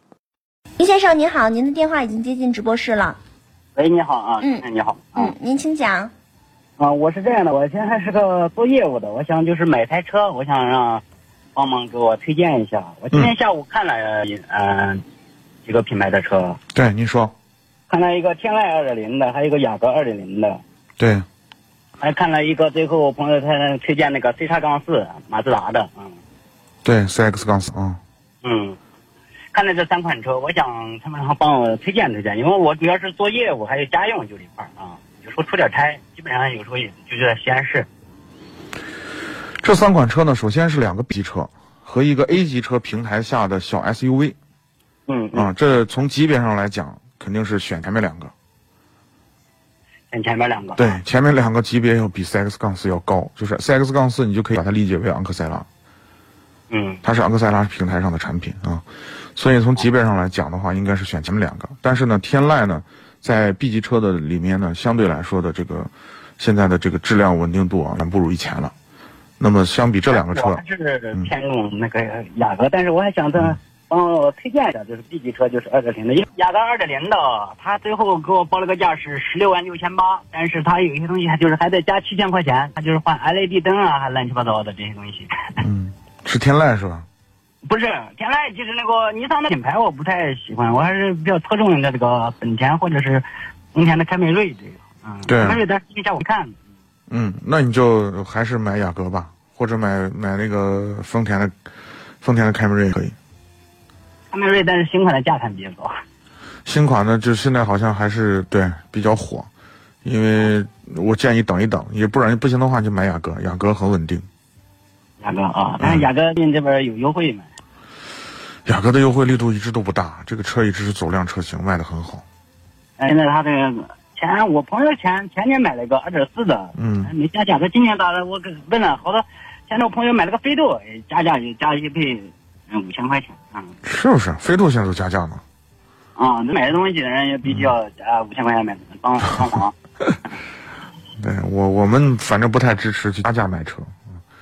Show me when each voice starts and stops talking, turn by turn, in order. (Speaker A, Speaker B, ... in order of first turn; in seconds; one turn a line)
Speaker A: 0.8-3.2
Speaker B: 3.8-5.3
Speaker A: 5.2-6.1
Speaker B: 6.8-11.0
Speaker B: 11.6-15.0
Speaker B: 15.7-16.6
Speaker C: 16.7-17.3
Speaker B: 17.9-20.6
Speaker C: 21.0-21.2
Speaker B: 22.0-26.2
Speaker C: 26.8-28.0
Speaker B: 28.4-28.8
Speaker B: 29.5-37.9
Speaker C: 39.6-44.4
Speaker B: 45.1-45.5
Speaker C: 45.3-48.3
Speaker B: 50.1-50.9
Speaker C: 50.8-55.7
Speaker B: 56.7-57.0
Speaker C: 57.0-58.8
Speaker C: 59.4-68.7
Speaker C: 69.4-70.6
Speaker B: 70.1-85.6
Speaker C: 85.6-87.0
Speaker B: 87.6-96.5
Speaker C: 95.3-95.6
Speaker C: 97.1-101.5
Speaker C: 102.2-103.1
Speaker B: 104.3-105.9
Speaker C: 106.7-109.5
Speaker C: 110.0-114.3
Speaker B: 115.2-117.5
Speaker C: 115.8-116.1
Speaker C: 118.7-122.2
Speaker B: 123.0-133.7
Speaker C: 126.8-127.1
Speaker C: 133.8-135.4
Speaker B: 136.2-139.7
Speaker C: 141.2-143.9